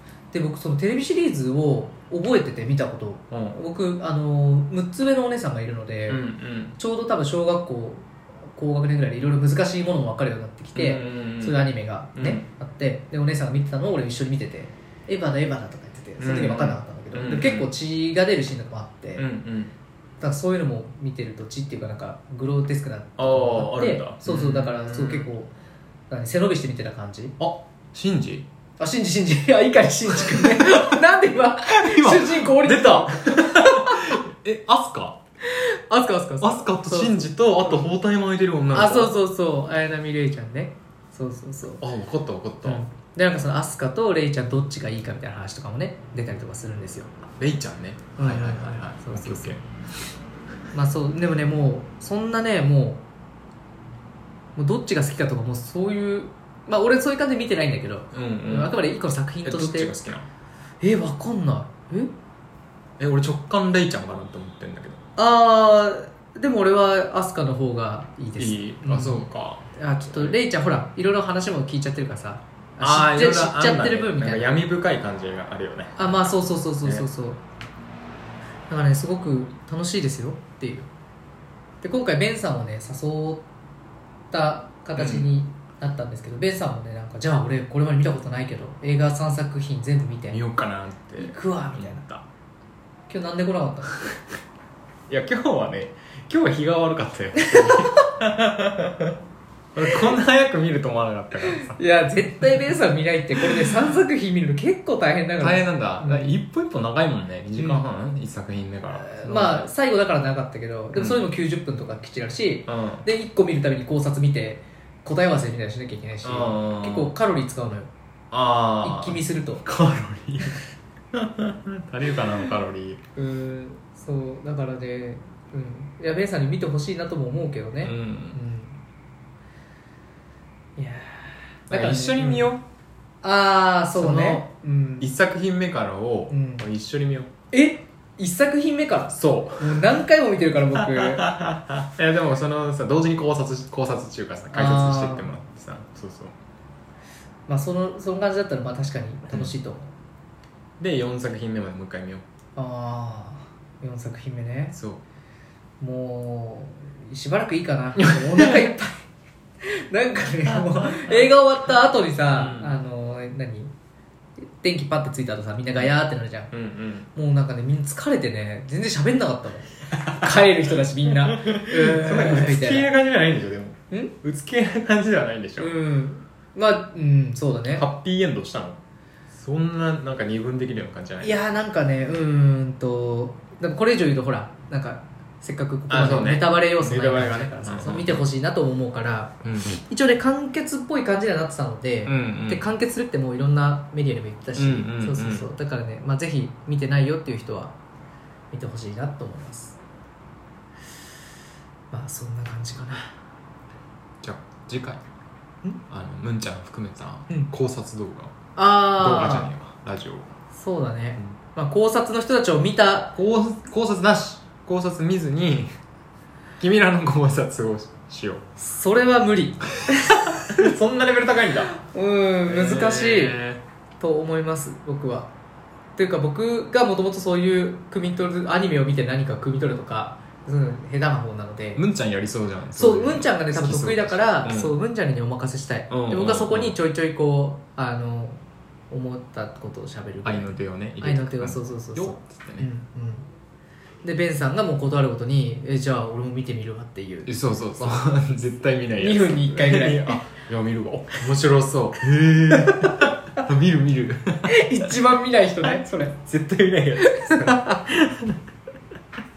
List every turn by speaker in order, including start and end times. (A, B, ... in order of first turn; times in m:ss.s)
0:00.3-0:06.2 A
0:03.3-0:03.6 B
0:06.1-0:06.8 B
0:06.8-0:19.2 A
0:10.7-0:11.6 B
0:12.2-0:12.4 B
0:16.2-0:17.7 B
0:19.2-0:19.7 B
0:20.2-0:25.5 A
0:23.2-0:25.3 B
0:26.1-0:27.4 A
0:27.4-0:28.5 B
0:28.8-0:34.2 A
0:30.3-0:30.8 B
0:31.7-0:35.2 B
0:35.5-0:37.8 A
0:36.4-0:39.1 B
0:38.7-0:41.8 A
0:41.8-0:42.8 B
0:42.6-0:47.1 A
0:47.4-0:49.6 B
0:48.2-0:49.6 A
0:50.7-0:53.0 A
0:54.6-0:59.9 A
0:58.1-0:58.8 B
0:59.4-1:00.2 B
1:00.8-1:02.1 A
1:03.0-1:05.0 B
1:05.2-1:09.2 A
1:08.4-1:10.4 B
1:09.7-1:14.5 A
1:12.8-1:17.1 B
1:16.0-1:17.4 A
1:18.7-1:20.9 A
1:21.8-1:23.4 A
1:24.3-1:30.4 A
1:25.0-1:25.3 B
1:30.3-1:32.2 B
1:31.2-1:32.0 A
1:33.1-1:34.0 A
1:35.1-1:39.1 B
1:37.4-1:38.1 A
1:39.7-1:41.8 B
1:41.6-1:46.4 A
1:43.4-1:43.8 B
1:45.4-1:49.7 B
1:47.6-1:47.8 A
1:49.0-1:57.9 A
1:50.9-1:51.2 B
1:52.7-1:53.0 B
1:56.2-1:57.1 B
1:58.3-2:00.6 B
1:58.8-1:59.6 A
2:01.1-2:03.0 B
2:03.2-2:08.8 A
2:07.8-2:08.4 B
2:10.8-2:12.5 A
2:11.7-2:12.6 B
2:13.2-2:15.1 A
2:13.9-2:14.4 B
2:15.0-2:17.3 B
2:16.3-2:16.6 A
2:17.5-2:21.3 A
2:19.1-2:20.0 B
2:20.7-2:26.3 B
2:24.5-2:25.3 A
2:27.5-2:29.9 A
2:30.8-2:32.2 B
2:32.6-2:34.8 A
2:34.7-2:35.0 B
2:35.8-2:39.0 A
2:39.6-2:43.7 A
2:42.3-2:42.7 B
2:44.5-2:46.5 A
2:46.5-2:47.1 B
2:47.1-2:52.9 A
2:51.1-2:55.7 B
2:55.6-2:57.8 A
2:57.7-2:58.8 B
2:59.3-3:01.4 B
3:01.2-3:17.7 A
3:05.9-3:08.2 B
3:09.4-3:09.8 B
3:12.0-3:12.7 B
3:14.6-3:15.5 B
3:18.5-3:19.8 A
3:21.9-3:23.1 A
3:24.2-3:25.0 B
3:25.9-3:28.3 B
3:28.6-3:29.5 A
3:29.0-3:30.3 B
3:30.5-3:33.2 A
3:33.1-3:35.7 B
3:36.6-3:38.4 B
3:38.6-3:40.7 A
3:39.9-3:41.7 B
3:41.7-3:43.4 A
3:42.4-3:43.6 B
3:44.0-3:45.3 A
3:46.0-3:51.8 A
3:51.8-3:54.8 B
3:52.8-4:03.2 A
3:55.9-3:56.7 B
4:00.2-4:02.7 B
4:04.0-4:08.0 A
4:07.2-4:14.9 B
4:09.0-4:10.2 A
4:12.5-4:13.1 A
4:14.5-4:16.1 A
4:15.6-4:18.4 B
4:17.1-4:17.8 A